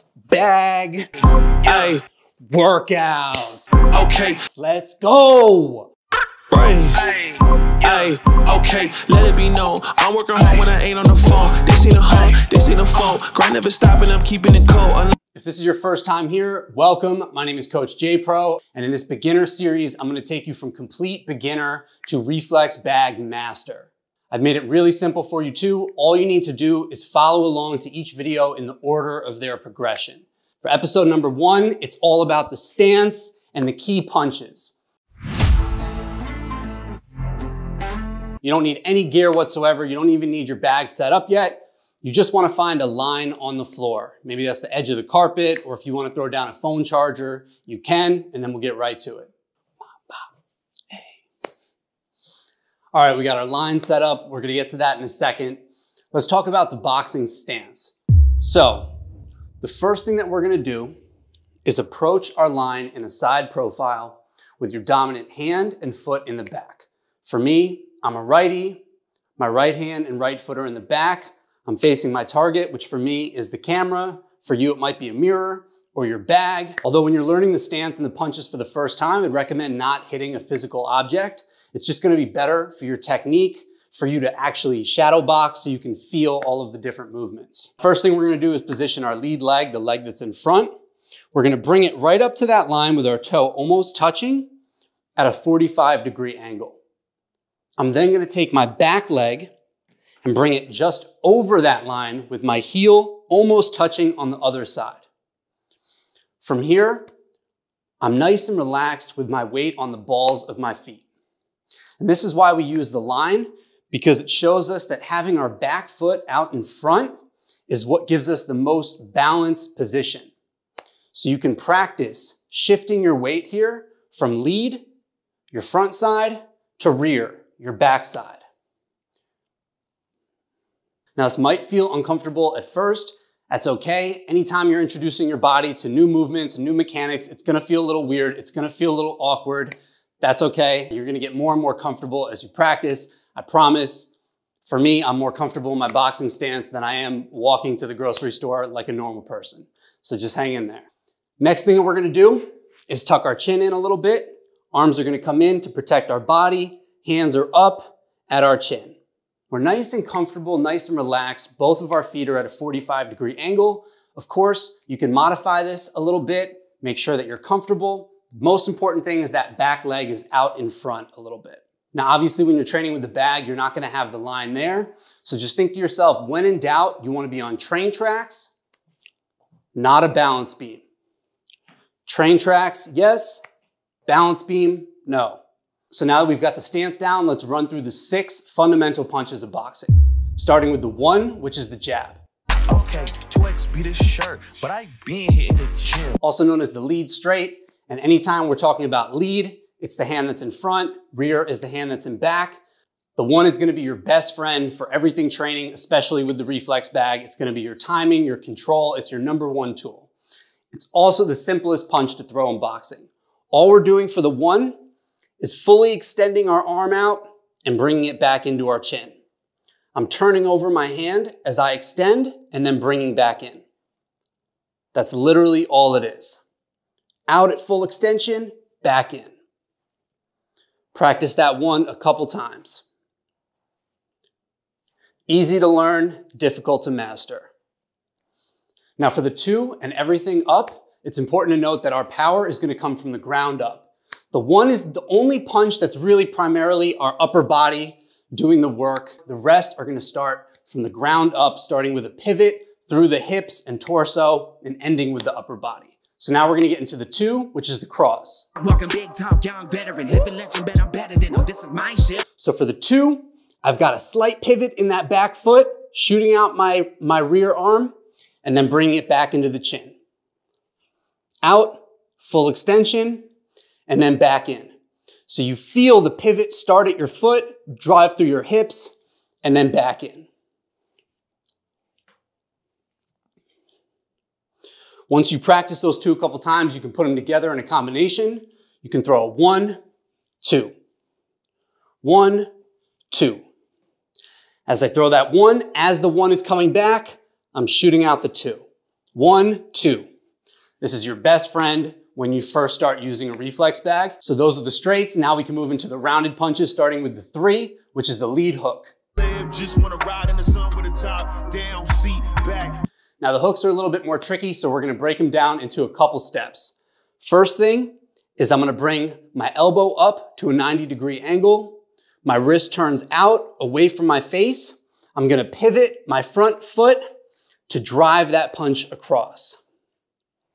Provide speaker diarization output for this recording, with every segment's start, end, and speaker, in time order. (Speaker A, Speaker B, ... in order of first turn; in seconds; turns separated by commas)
Speaker A: 0.3-1.1, Speaker B: 1.6-2.0, Speaker A: 2.5-3.7, Speaker B: 3.9-4.4, Speaker A: 4.5-5.9, Speaker B: 6.5-15.1, Speaker A: 15.3-34.8, Speaker A: 38.4-49.3, Speaker A: 50.9-51.2, Speaker A: 52.9-55.6, Speaker A: 56.1-58.9, Speaker A: 59.6-60.9, Speaker A: 61.6-68.8, Speaker A: 69.4-90.7, Speaker A: 91.3-94.5, Speaker A: 95.2-96.8, Speaker A: 97.8-99.5, Speaker A: 100.2-105.0, Speaker A: 106.4-107.0, Speaker A: 108.0-111.0, Speaker A: 112.0-117.1, Speaker A: 117.7-120.3, Speaker A: 121.1-124.8, Speaker A: 125.5-128.4, Speaker A: 131.2-144.1, Speaker A: 144.7-150.9, Speaker A: 151.4-158.9, Speaker A: 159.5-178.5, Speaker A: 179.7-180.8, Speaker A: 182.1-183.4, Speaker A: 184.1-185.4, Speaker A: 185.9-192.2, Speaker B: 192.7-196.2, Speaker A: 196.2-202.6, Speaker A: 203.2-210.1, Speaker A: 210.7-214.8, Speaker A: 215.4-219.2, Speaker A: 219.9-223.6, Speaker A: 224.9-226.4, Speaker A: 227.3-229.3, Speaker A: 230.9-232.8, Speaker A: 235.3-237.5, Speaker A: 239.0-258.5, Speaker C: 258.6-262.2, Speaker A: 262.4-267.9, Speaker A: 268.4-269.9, Speaker A: 271.4-273.2, Speaker A: 273.9-274.7, Speaker A: 275.3-280.3, Speaker A: 285.1-289.8, Speaker A: 290.4-290.7, Speaker A: 292.0-292.5, Speaker A: 293.1-293.4, Speaker A: 294.7-298.6, Speaker A: 299.1-300.1, Speaker A: 300.8-308.9, Speaker B: 309.1-312.8, Speaker A: 313.2-327.0, Speaker A: 327.7-329.6